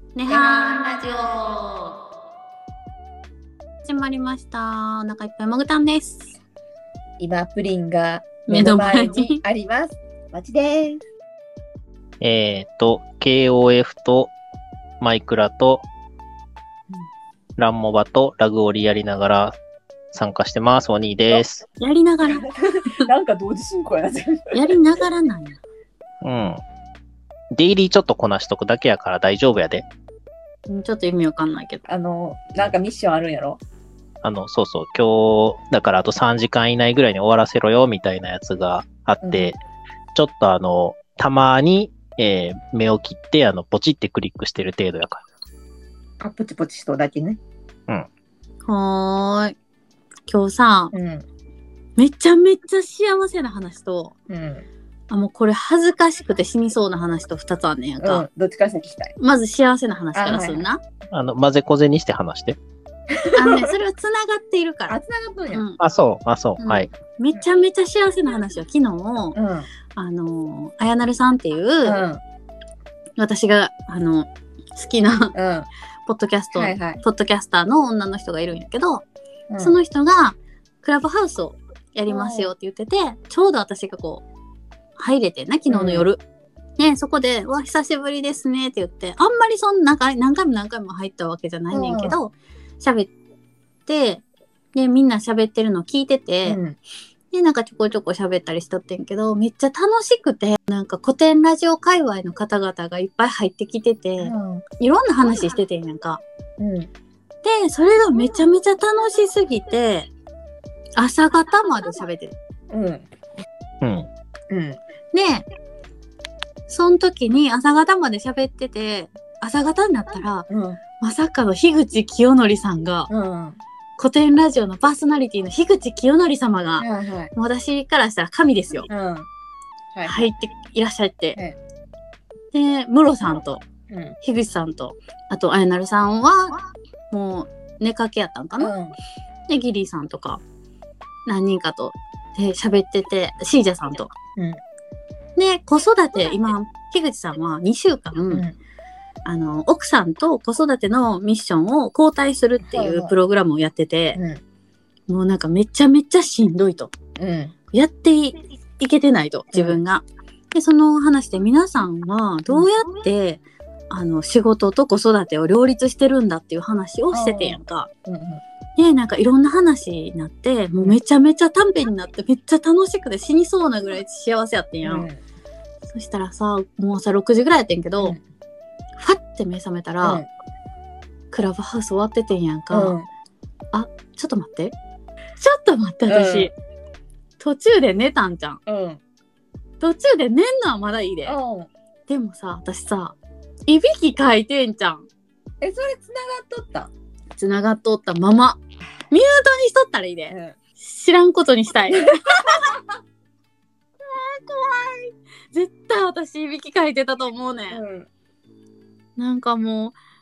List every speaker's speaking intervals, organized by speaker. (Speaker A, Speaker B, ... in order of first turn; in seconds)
Speaker A: 0.1-2.0, 3.9-6.4, 8.5-9.4, 21.8-23.1, 24.5-25.6, 30.7-31.8, 48.6-49.6, 50.3-50.9, 52.0-54.1, 55.1-58.2, 59.2-60.8, 63.3-65.0, 65.5-65.8, 66.6-69.4, 70.0-72.0, 73.2-75.4, 76.1-79.0, 79.6-84.2, 85.0-86.2, 86.8-93.1, 93.9-94.2, 94.7-96.6, 97.3-106.2, 107.4-110.1, 111.0-112.3, 115.1-115.5, 116.7-120.5, 121.0-123.1, 124.0-128.9, 130.1-131.4, 132.5-133.6, 134.2-136.6, 137.1-138.7, 139.5-140.4, 141.3-144.1, 145.4-148.5, 149.2-154.2, 155.1-156.9, 157.7-167.9, 168.8-175.1, 175.9-178.2, 179.0-180.2, 181.3-183.0, 183.7-184.8, 185.4-186.5, 187.4-188.6, 189.8-191.4, 192.1-193.2, 193.7-195.1, 197.4-198.6, 199.1-202.6, 204.1-207.8, 209.2-209.9
Speaker B: 0.3-1.0, 7.2-11.0, 22.2-24.6, 31.9-33.6, 39.2-39.5, 46.2-47.4, 50.9-51.2, 54.3-54.7, 58.0-59.1, 60.1-60.7, 63.1-63.7, 64.9-65.6, 69.3-69.7, 71.8-72.2, 75.3-75.7, 76.5-77.0, 79.5-79.8, 82.1-82.5, 85.7-86.1, 91.7-92.2, 96.5-96.8, 104.2-104.6, 106.6-106.9, 112.7-113.1, 114.5-114.8, 120.5-120.8, 123.1-123.6, 126.8-127.3, 128.9-129.3, 129.9-130.3, 133.9-134.2, 138.6-138.9, 152.7-153.1, 154.2-154.4, 157.2-157.5, 159.5-159.8, 167.1-168.4, 174.8-175.2, 182.7-183.1, 186.1-186.5, 188.7-189.0, 191.3-191.7, 195.6-196.9, 200.3-200.6, 202.5-202.8, 207.7-208.1
Speaker C: 12.2-14.3, 15.0-15.8, 17.6-19.6, 20.1-21.6, 26.2-26.6, 27.5-29.9, 34.2-39.6, 40.1-45.2, 61.1-62.6, 65.8-66.9, 113.8-114.1